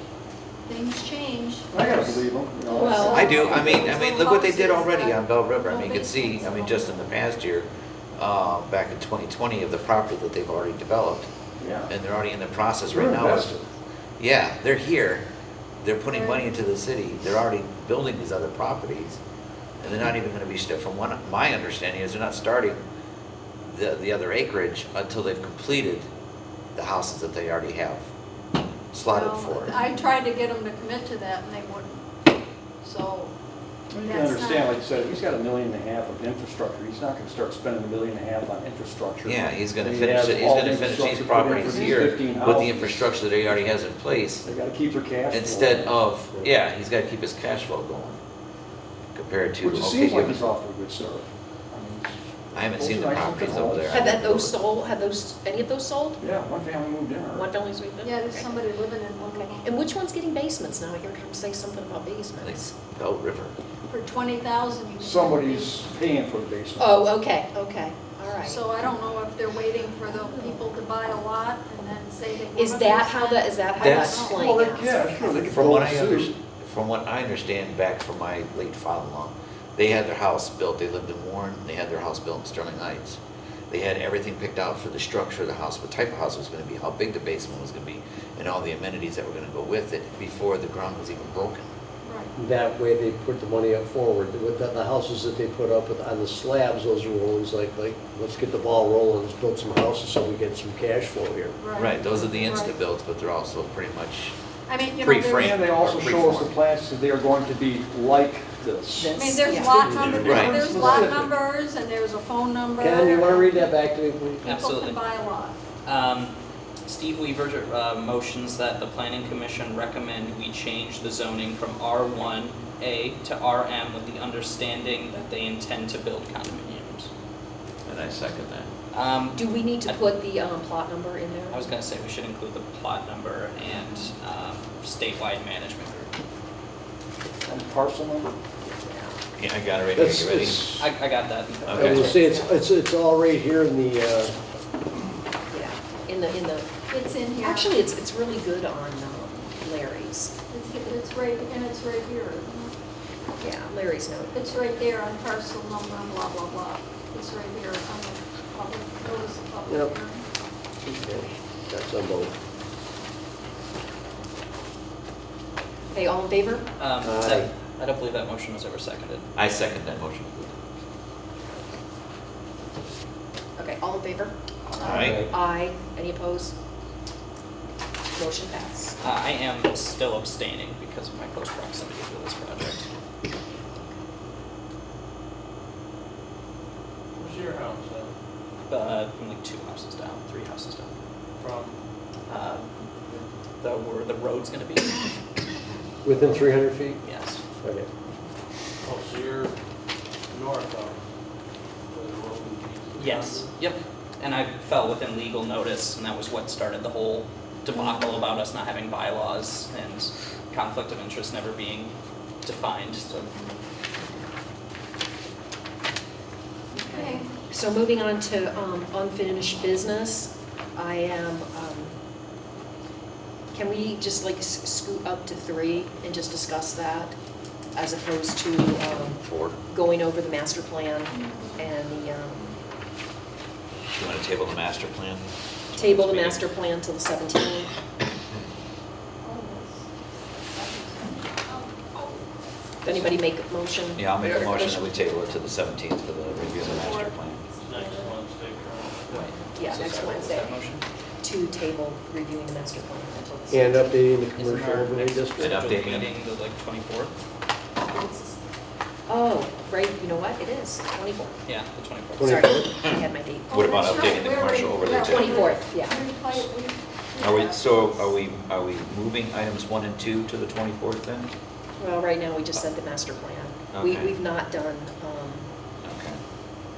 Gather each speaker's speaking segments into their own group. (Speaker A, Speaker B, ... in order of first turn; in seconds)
Speaker A: 0.7-1.7, 2.7-7.1, 16.1-16.4, 29.1-32.1, 32.8-33.3, 34.0-34.8, 58.0-59.7, 63.9-65.8, 68.4-74.5, 92.0-92.3, 101.6-102.7, 104.7-105.6, 109.2-113.7, 114.4-115.6, 133.7-134.1, 146.9-147.8, 150.5-152.7, 154.3-160.2, 207.7-208.2, 216.8-217.3, 231.1-232.5, 239.2-242.2, 246.6-248.2, 263.5-268.0
Speaker B: 1.7-3.9, 11.6-11.9, 12.9-13.6, 33.9-43.7, 44.4-46.0, 49.6-54.2, 56.2-57.5, 65.0-67.0, 74.4-76.3, 105.4-109.2, 109.9-111.3, 137.5-138.3
Speaker C: 2.7-3.6, 53.9-56.2, 57.3-58.6, 59.2-62.6, 66.8-68.7, 70.1-70.6, 72.5-75.4, 109.0-110.0, 129.3-131.6, 138.7-139.2, 142.0-142.5, 145.5-146.7, 147.4-150.3, 153.4-154.5, 165.9-166.7, 173.6-176.6, 178.1-179.0, 216.7-222.0, 223.5-227.2, 227.8-232.5, 235.8-237.7, 242.8-244.9, 249.5-250.6, 251.2-254.0, 257.8-258.4, 259.1-261.4, 262.2-264.1, 264.9-266.1, 271.8-275.5
Speaker D: 3.1-11.3, 11.9-13.5, 14.2-15.3, 15.8-19.2, 19.8-22.8, 23.6-26.1, 26.8-28.1, 28.9-29.8, 39.2-44.5, 45.3-48.2, 49.1-50.5, 52.5-54.6, 62.4-63.5, 73.8-74.4, 75.5-91.7, 101.8-104.4, 105.0-106.6, 110.2-110.6, 127.9-128.7, 139.4-140.8, 141.7-142.1, 169.4-170.6, 174.8-175.3, 229.1-229.6, 233.9-236.5, 244.0-247.4, 255.4-256.1, 263.5-265.4, 267.2-271.3, 273.7-274.2, 275.8-276.2
Speaker E: 92.4-101.6, 109.8-111.2, 112.8-114.4, 140.0-140.9, 141.7-144.4, 159.7-159.9, 160.8-162.3, 167.0-167.5, 174.8-175.3, 196.0-197.0, 197.6-197.9, 253.5-255.6, 262.2-262.7
Speaker F: 114.4-115.0, 115.8-127.1, 128.9-130.1, 131.5-136.1, 140.8-142.2, 166.8-169.3, 179.0-182.9, 188.7-190.9, 192.3-195.2, 197.0-197.4, 203.0-213.4, 249.1-250.8, 254.3-257.1, 261.5-262.4
Speaker G: 187.2-188.1, 191.4-191.8, 198.8-199.6, 200.3-201.0, 201.9-203.5, 247.6-249.3